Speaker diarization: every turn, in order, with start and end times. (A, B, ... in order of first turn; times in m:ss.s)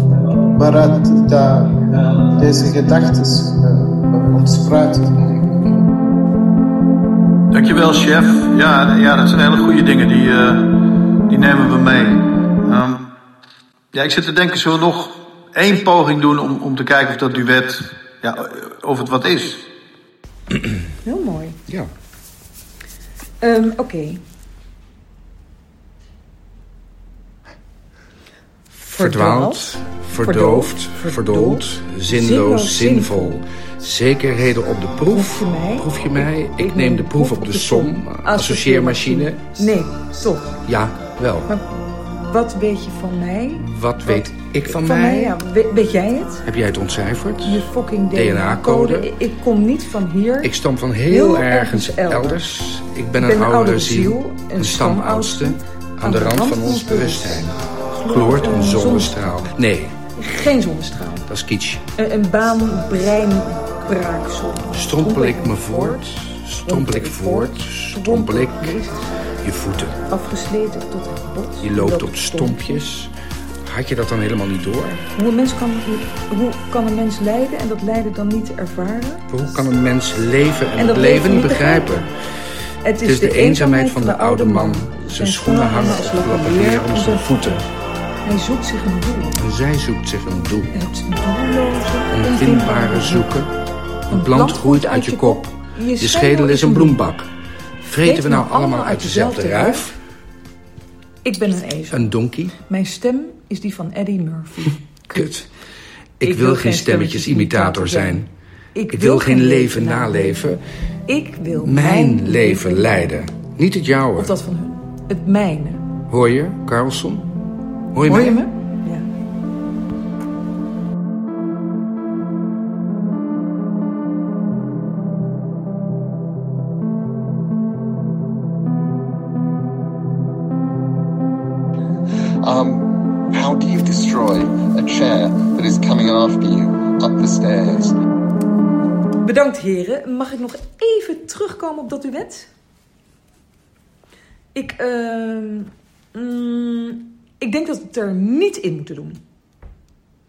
0:00.5-0:05.6 A
0:07.5-0:10.6 B
0:11.3-0:13.1 B
0:13.9-0:19.7 B
0:21.0-0:21.6 C
0:23.4-0:24.2 C
0:28.7-0:33.4 C
0:28.9-0:39.5 D
0:35.1-0:40.6 C
0:40.6-0:41.5 D
0:41.4-0:46.5 C
0:43.6-0:45.4 D
0:46.4-0:49.1 D
0:47.4-0:50.5 C
0:50.4-1:00.0 D
0:51.0-0:52.4 C
0:53.2-0:59.3 C
1:00.1-1:01.3 C
1:01.3-1:01.8 D
1:01.9-1:06.0 C
1:04.7-1:08.8 D
1:06.6-1:09.1 C
1:09.4-1:10.0 D
1:10.0-1:12.8 C
1:11.6-1:13.1 D
1:13.6-1:15.0 D
1:15.2-1:19.3 C
1:19.3-1:22.1 D
1:20.7-1:22.1 C
1:22.8-1:27.6 C
1:23.0-1:27.6 D
1:28.2-1:29.4 C
1:29.4-1:30.8 D
1:30.7-1:33.4 C
1:32.1-1:33.5 D
1:34.1-1:37.0 C
1:34.1-1:37.3 D
1:37.8-1:39.9 D
1:38.0-1:39.9 C
1:41.2-1:45.3 C
1:41.9-1:42.5 D
1:45.1-1:45.5 D
1:46.2-1:48.3 D
1:46.2-1:53.1 C
1:48.9-1:50.6 D
1:51.6-1:54.3 D
1:54.2-1:55.8 C
1:56.1-1:57.3 D
1:57.9-1:58.4 D
1:58.0-1:59.0 C
2:12.4-2:18.0 E
2:19.2-2:22.5 C
2:24.5-2:29.2 C